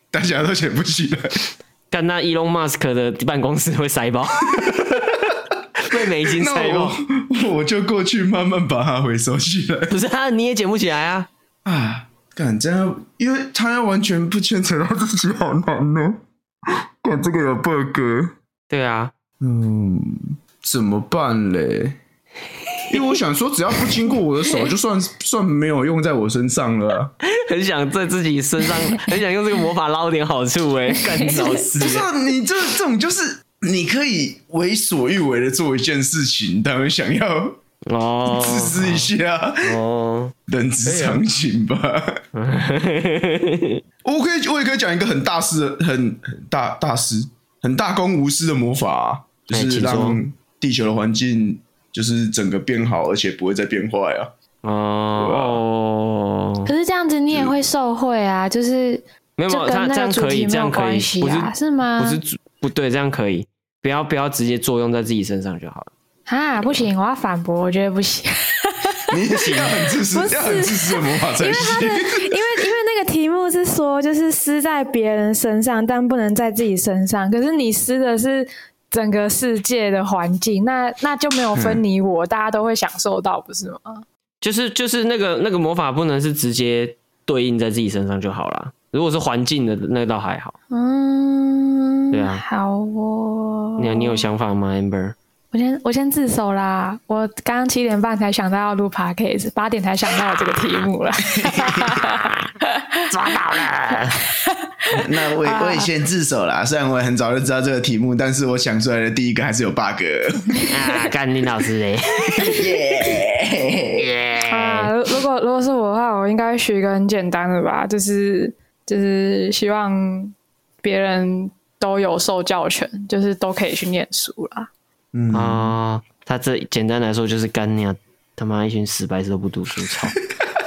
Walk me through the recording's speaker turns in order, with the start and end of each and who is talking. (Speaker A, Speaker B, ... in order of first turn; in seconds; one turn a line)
Speaker A: 0.1-1.5
Speaker B: 1.9-7.0
Speaker A: 5.9-9.9
Speaker B: 9.9-11.3
Speaker A: 11.7-18.3
Speaker B: 18.7-19.1
Speaker A: 19.4-22.0
Speaker A: 22.9-27.1
Speaker B: 27.2-32.1
Speaker C: 31.1-31.5
Speaker A: 31.7-37.6
Speaker B: 37.9-39.1
Speaker A: 38.2-39.8
Speaker B: 39.6-40.3
Speaker A: 40.5-42.2
Speaker B: 40.8-41.2
Speaker B: 42.3-43.8
Speaker A: 44.0-54.3
Speaker B: 49.5-50.2
Speaker B: 54.6-56.7
Speaker A: 55.2-55.6
Speaker C: 56.7-62.2
Speaker B: 59.4-65.9
Speaker C: 66.3-84.0
Speaker A: 69.1-72.6
Speaker A: 81.5-81.8
Speaker B: 84.4-90.5
Speaker C: 90.7-94.3
Speaker B: 92.1-92.4
Speaker B: 93.8-95.2
Speaker C: 95.5-103.0
Speaker A: 101.2-102.1
Speaker B: 102.1-102.4
Speaker B: 103.1-104.2
Speaker C: 104.2-105.9
Speaker A: 104.9-110.7
Speaker B: 110.7-112.8
Speaker A: 112.3-114.1
Speaker B: 114.0-114.9
Speaker C: 114.5-124.7
Speaker A: 125.1-125.7
Speaker B: 125.3-130.2